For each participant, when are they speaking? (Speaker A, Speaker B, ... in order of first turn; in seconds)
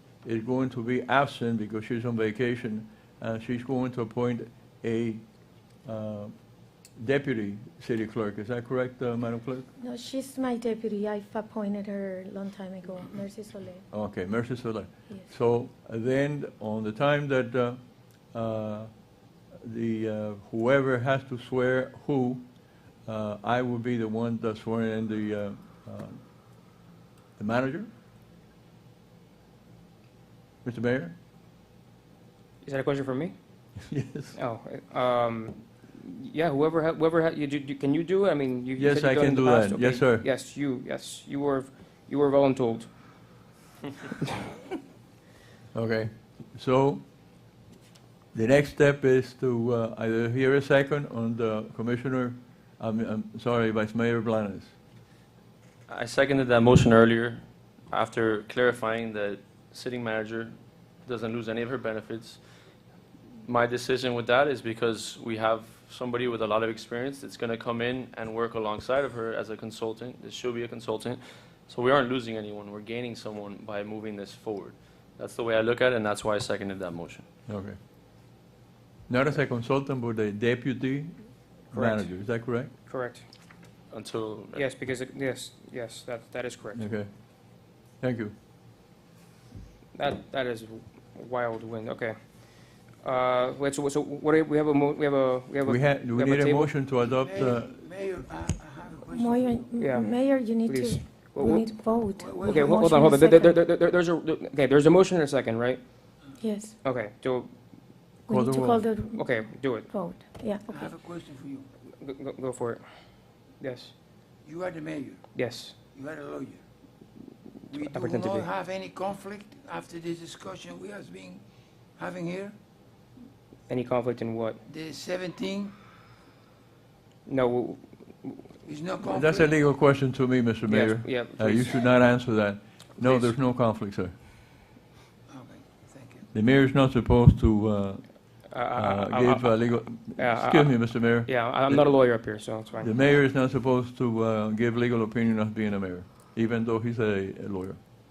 Speaker A: 0.2-5.2, 5.8-6.3, 7.0-9.7, 13.9-17.8, 18.3-18.9, 19.6-22.4, 23.1-26.2, 27.4-27.9, 30.6-31.1, 33.9-34.4, 38.8-40.2, 45.7-47.0, 48.3-54.7, 77.5-77.8, 79.1-82.7, 86.7-87.1, 88.0-88.3, 95.6-97.6, 108.3-108.9, 129.1-134.1, 136.3-141.9, 142.8-147.8
Speaker B: 9.8-13.8, 99.1-103.6, 106.4-106.8, 108.3-110.9
Speaker C: 32.6-33.4, 34.3-42.9, 81.7-83.2, 84.5-86.8, 89.9-92.2, 93.0-96.7, 99.8-101.9, 102.4-105.8, 106.8-107.5, 109.1-109.9, 112.0-112.9, 113.6-113.9, 115.3-115.7, 117.8-118.5, 123.7-124.6, 127.2-128.5, 130.7-131.8, 133.0-133.3, 138.5-142.9
Speaker D: 55.9-62.4, 63.4-77.2, 83.9-84.7
Speaker E: 97.0-99.7, 102.2-102.8, 110.7-111.7, 114.4-115.2, 115.9-116.6, 117.7-121.4, 122.0-122.5, 124.7-125.7, 128.6-129.6, 135.3-136.3